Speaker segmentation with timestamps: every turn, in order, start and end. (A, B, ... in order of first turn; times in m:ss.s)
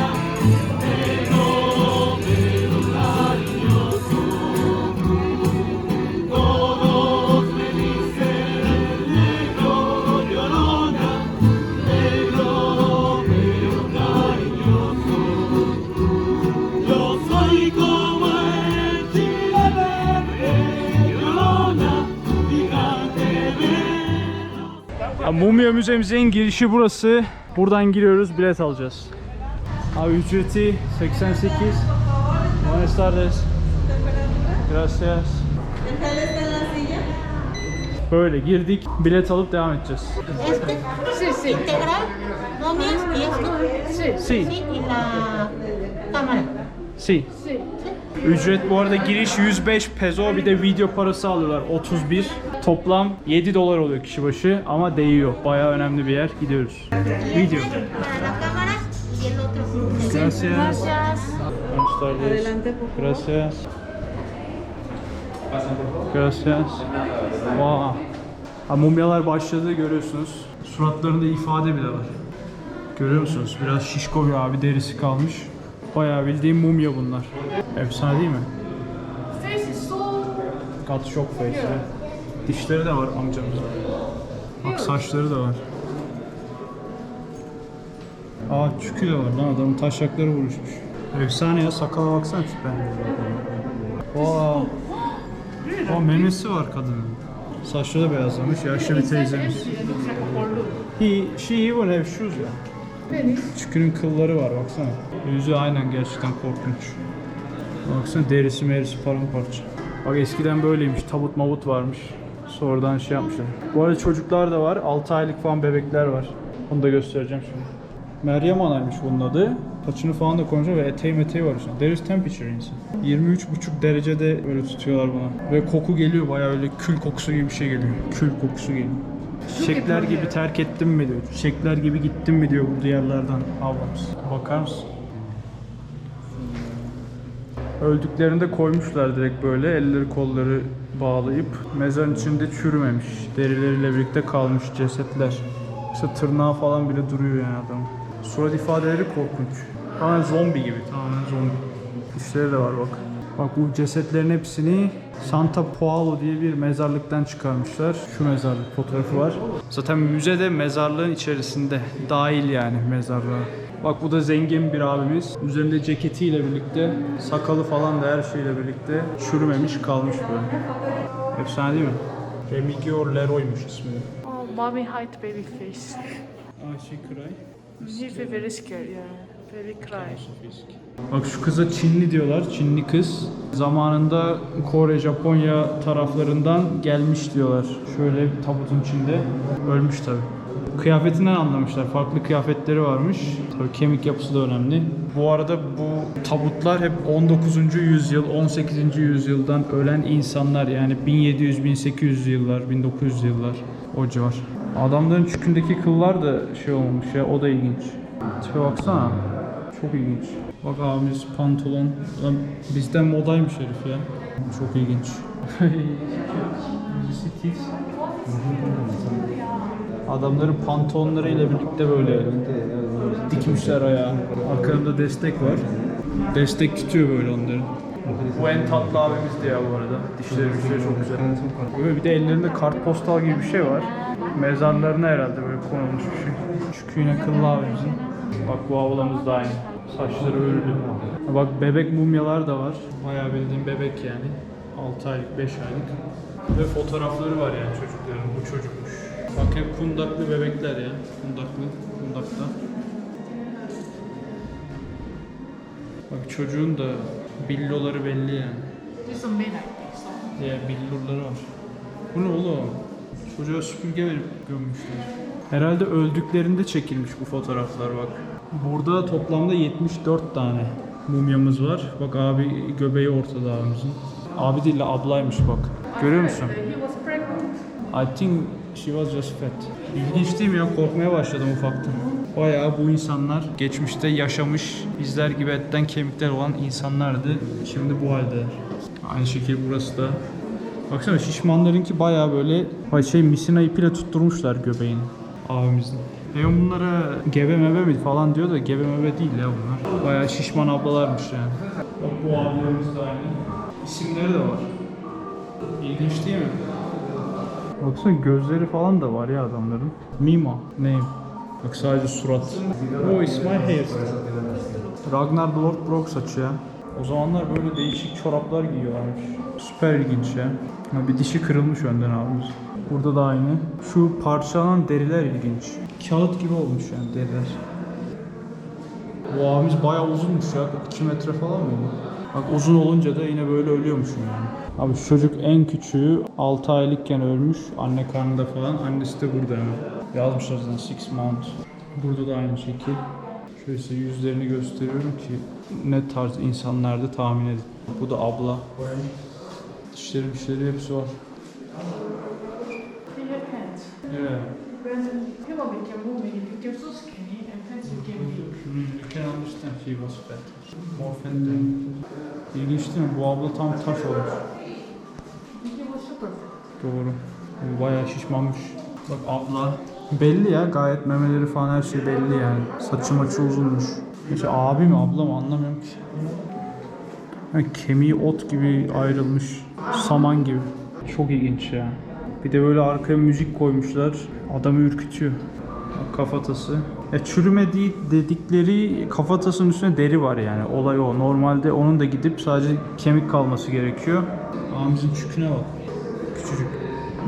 0:17.1-0:17.6 A
0:21.0-0:21.4 A
0:25.2-0:29.1 B
0:29.9-0:31.9 B
0:32.6-0:33.5 B
0:34.6-0:35.5 B
0:38.1-0:40.4 B
0:40.4-0:46.6 C
0:41.1-0:41.6 A
0:44.2-0:44.5 B
0:47.0-0:47.3 B
0:48.2-0:57.8 B
0:57.8-1:01.4 C
1:00.0-1:00.9 B
1:01.7-1:03.6 B
1:06.1-1:06.9 B
1:07.4-1:08.0 B
1:08.7-1:12.1 B
1:12.9-1:18.5 B
1:19.3-1:20.3 A
1:20.8-1:21.9 B
1:22.4-1:23.7 B
1:24.6-1:25.6 B
1:28.5-1:33.0 B
1:34.1-1:34.7 B
1:35.8-1:39.9 B
1:38.6-1:40.8 A
1:41.0-1:42.6 B
1:43.1-1:43.5 A
1:43.5-1:47.0 B
1:47.8-1:57.7 B
1:58.2-2:14.9 B
2:09.5-2:10.3 A
2:17.8-2:50.6 B
2:51.3-2:54.1 B
2:54.2-2:56.2 A
2:56.6-2:58.5 B
2:57.8-3:00.2 A
2:59.8-3:37.7 B
3:38.3-3:39.1 B
3:40.0-3:42.5 B
3:43.0-3:45.7 B
3:46.3-4:06.0 B
4:06.5-4:12.5 B
4:16.1-4:18.7 B
4:19.0-4:20.3 A
4:20.4-4:21.4 B
4:22.1-4:36.7 B
4:36.0-4:37.5 A
4:37.9-4:50.2 B
4:50.9-5:04.7 B
5:05.8-5:06.6 B
5:07.8-5:14.4 B
5:14.5-5:14.9 A
5:15.0-5:27.6 B
5:29.3-5:49.1 B
5:49.9-5:51.2 B
5:53.1-5:54.0 A
5:54.1-5:54.6 B
5:54.8-5:58.5 A
5:57.8-6:04.4 B
6:05.6-6:06.5 A
6:06.8-6:16.1 B
6:17.5-6:25.4 B
6:25.9-6:35.8 B
6:36.3-6:36.8 B